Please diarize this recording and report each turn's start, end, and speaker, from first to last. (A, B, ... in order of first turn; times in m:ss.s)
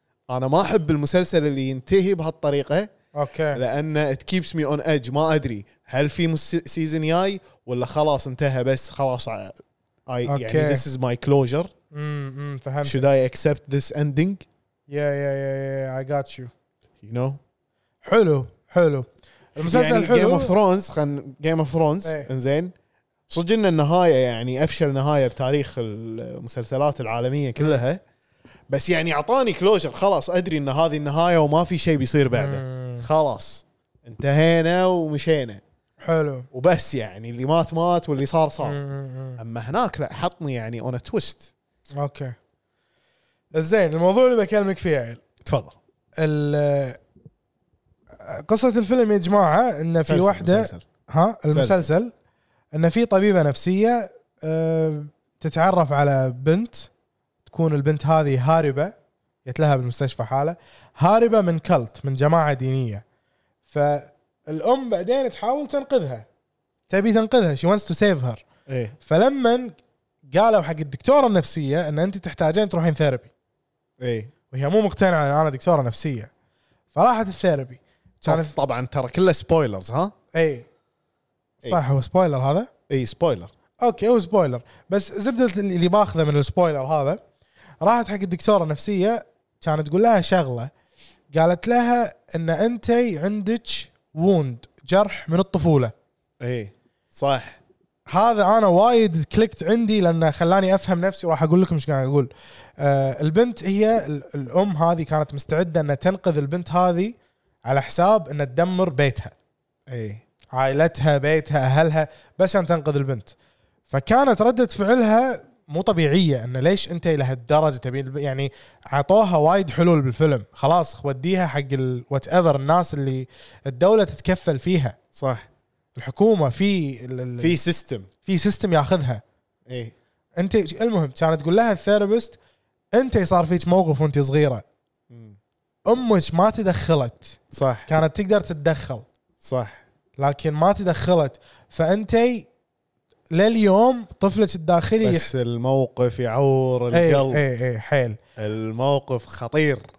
0:00.3-0:02.9 A
0:03.2-0:03.6 B
0:03.5-0:11.7 A
0:10.3-0:10.8 B
0:11.9-0:13.0 B
0:12.8-0:14.4 A
0:14.9-0:16.5 B
0:17.0-0:17.4 A
0:18.0-0:20.5 B
0:19.6-0:22.7 A
0:23.3-0:28.0 A
0:28.7-0:35.6 A
0:32.3-0:33.0 B
0:36.0-0:36.5 B
0:36.5-0:38.8 A
0:38.6-0:39.4 B
0:39.4-0:41.5 A
0:42.0-0:42.4 B
0:43.5-0:45.2 B
0:45.4-0:45.8 A
0:46.2-0:47.0 B
0:48.2-0:52.1 B
0:50.0-0:50.8 A
0:51.5-0:51.9 A
0:52.7-0:56.9 B
0:57.4-0:58.9 B
0:59.4-1:03.0 B
1:03.7-1:06.2 B
1:06.9-1:08.4 B
1:08.7-1:09.0 A
1:09.0-1:09.7 B
1:10.3-1:13.3 B
1:14.0-1:14.3 A
1:14.5-1:16.3 B
1:16.9-1:18.5 B
1:18.2-1:20.1 A
1:20.3-1:20.6 B
1:21.6-1:22.7 B
1:22.9-1:23.5 A
1:23.8-1:27.2 B
1:27.8-1:30.7 B
1:31.3-1:35.9 B
1:36.4-1:37.6 A
1:38.1-1:49.3 B
1:49.9-1:50.2 A
1:50.5-1:53.3 B
1:53.9-2:05.0 B
2:05.1-2:05.5 A
2:06.0-2:07.6 B
2:07.4-2:08.1 A
2:08.2-2:09.2 B
2:09.7-2:09.9 A
2:10.4-2:12.4 B
2:12.9-2:14.6 B
2:15.1-2:15.4 A
2:15.9-2:19.0 B
2:17.5-2:17.9 A
2:19.4-2:19.8 A
2:20.2-2:22.5 B
2:23.3-2:25.3 B
2:25.0-2:27.4 A
2:26.9-2:28.2 B
2:28.4-2:29.8 A